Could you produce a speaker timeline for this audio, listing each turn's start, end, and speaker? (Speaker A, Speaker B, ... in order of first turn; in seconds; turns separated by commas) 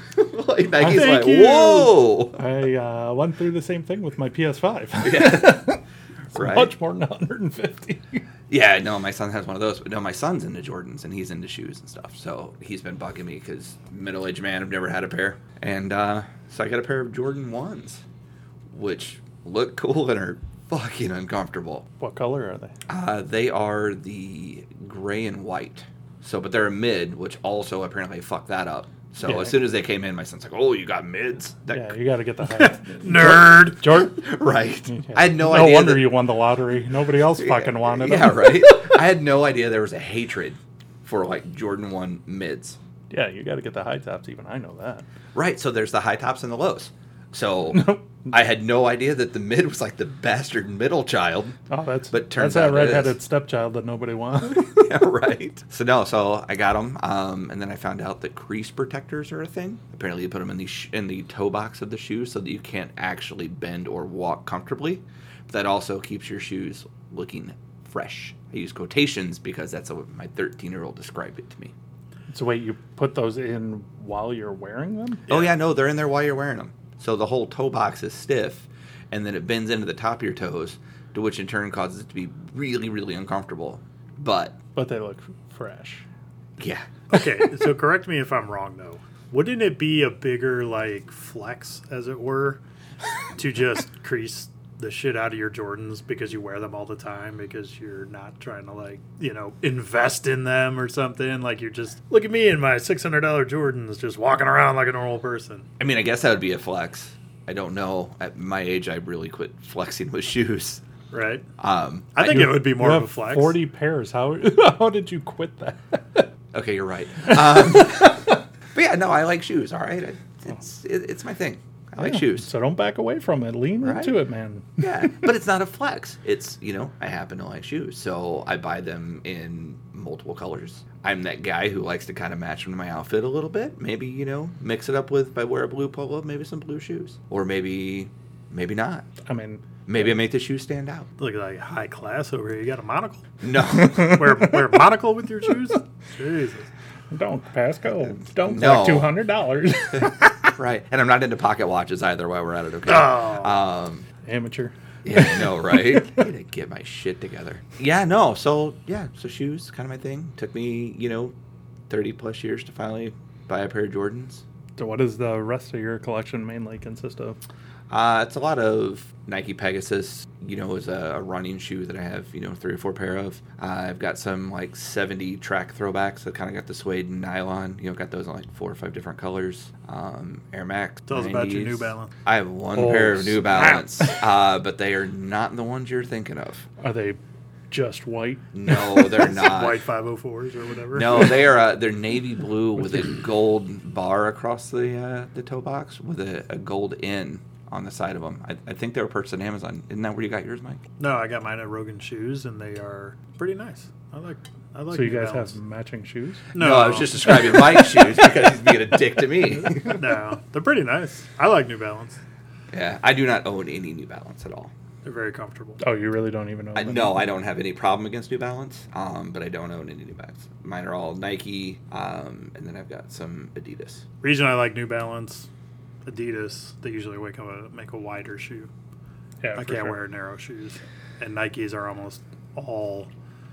Speaker A: 0.1-2.4, Speaker B: 0.8-1.7, Speaker C: 0.8-1.9, Speaker B: 2.3-5.8, Speaker A: 5.0-5.7, Speaker A: 6.3-6.7, Speaker B: 6.3-8.2, Speaker A: 8.5-18.0, Speaker A: 18.7-21.9, Speaker B: 22.0-22.8, Speaker A: 22.9-31.9, Speaker B: 29.2-29.5, Speaker B: 31.7-34.2, Speaker C: 32.5-33.8, Speaker A: 33.2-36.1, Speaker B: 34.9-38.6, Speaker A: 37.4-42.8, Speaker B: 43.1-45.0, Speaker A: 45.3-51.6, Speaker B: 47.7-48.3, Speaker B: 51.7-54.7, Speaker A: 52.1-53.1, Speaker A: 54.4-71.7, Speaker B: 72.3-75.2, Speaker C: 75.3-75.5, Speaker A: 75.3-84.6, Speaker B: 84.8-86.0, Speaker A: 86.6-86.9, Speaker C: 87.1-92.6, Speaker C: 93.3-105.7, Speaker A: 105.8-110.8, Speaker C: 111.1-111.4, Speaker A: 111.6-112.5, Speaker C: 112.1-113.6, Speaker B: 112.2-116.2, Speaker A: 116.5-122.5, Speaker B: 117.2-118.3, Speaker B: 122.0-125.2, Speaker A: 123.8-124.1, Speaker A: 124.8-139.0, Speaker B: 139.2-139.6, Speaker A: 139.9-141.1, Speaker C: 141.2-143.2, Speaker A: 143.4-144.2, Speaker B: 143.7-144.5, Speaker C: 143.9-146.7, Speaker B: 147.1-150.3, Speaker A: 148.1-149.1, Speaker A: 150.0-154.0, Speaker C: 152.9-153.6, Speaker B: 154.2-156.3, Speaker A: 155.0-161.3, Speaker A: 161.9-164.4, Speaker B: 164.8-167.4, Speaker A: 167.9-186.7, Speaker C: 181.1-182.1, Speaker B: 182.7-184.2, Speaker B: 186.8-187.2, Speaker B: 187.7-189.2, Speaker A: 188.5-189.8, Speaker C: 189.1-191.4, Speaker A: 190.9-200.8, Speaker C: 201.0-205.5, Speaker B: 204.9-206.5, Speaker C: 206.5-207.6, Speaker A: 206.5-210.0, Speaker C: 209.9-212.2, Speaker A: 212.7-214.7, Speaker C: 215.0-215.8, Speaker B: 215.8-217.2, Speaker A: 216.7-224.0, Speaker C: 224.2-225.5, Speaker C: 226.1-228.7, Speaker B: 229.4-229.9, Speaker C: 229.6-233.1